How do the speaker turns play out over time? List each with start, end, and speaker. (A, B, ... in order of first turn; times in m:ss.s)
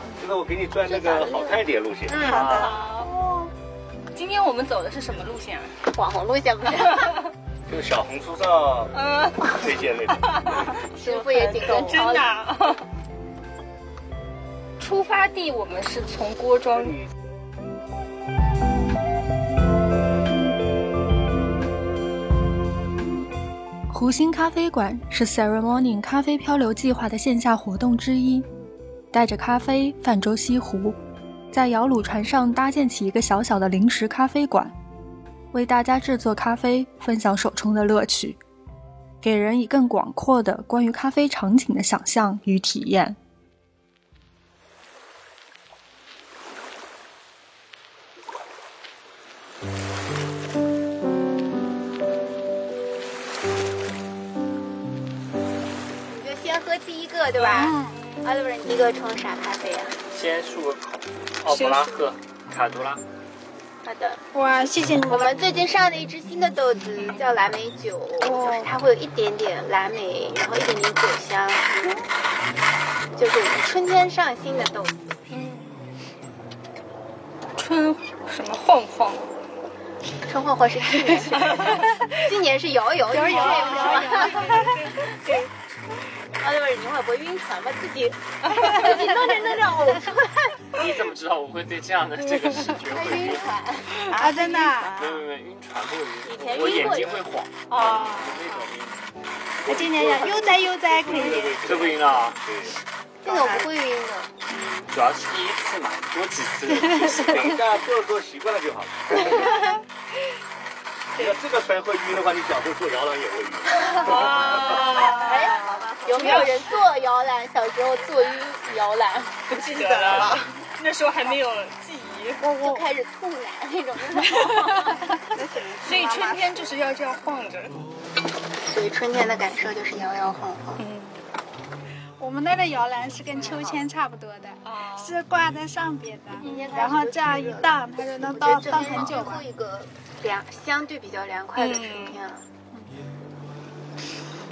0:00.2-0:02.2 A
0:00.8-0:02.7 B
0:02.2-0:03.5 C
0:02.2-0:02.7 D
0:02.3-0:03.1 E
0:04.1-0:05.7 E
0:05.9-0:07.1 B
0:07.7-0:10.7 A
0:08.9-0:09.6 E
0:10.2-0:12.8 E
0:10.8-0:12.2 B
0:14.8-0:17.0 E
0:23.9-0:28.5 F
0:29.1-0:31.0 F
0:31.5-0:34.7 F
0:35.5-0:38.4 F
0:39.2-0:43.2 F
0:56.0-1:00.0 B
0:57.4-0:58.0 C
1:00.1-1:03.0 D
1:01.5-1:02.0 C
1:03.8-1:04.2 B
1:04.3-1:05.4 C
1:05.1-1:11.9 B
1:08.2-1:08.7 C
1:13.1-1:15.2 B
1:15.3-1:15.7 E
1:17.6-1:19.3 E
1:20.2-1:25.4 B
1:23.1-1:25.3 C
1:23.3-1:24.8 E
1:26.4-1:30.4 B
1:28.5-1:29.0 E
1:30.7-1:33.5 D
1:32.9-1:35.2 B
1:34.1-1:35.0 C
1:34.9-1:39.0 D
1:36.2-1:37.3 B
1:37.7-1:38.4 E
1:39.6-1:42.7 A
1:39.6-1:41.7 C
1:41.6-1:42.4 D
1:43.2-1:44.3 B
1:43.2-1:43.7 C
1:44.9-1:47.6 D
1:46.8-1:47.6 C
1:47.2-1:49.2 A
1:51.1-1:54.8 A
1:53.8-1:56.8 E
1:53.9-1:59.5 B
1:55.0-1:55.6 C
1:59.5-2:02.5 E
2:00.1-2:00.3 B
2:02.4-2:05.0 B
2:02.5-2:02.9 C
2:05.1-2:06.6 C
2:05.8-2:07.8 E
2:08.6-2:10.8 B
2:10.8-2:11.2 E
2:12.2-2:19.4 C
2:13.3-2:13.8 E
2:14.6-2:15.2 E
2:16.4-2:22.4 B
2:16.4-2:16.7 E
2:21.6-2:22.2 E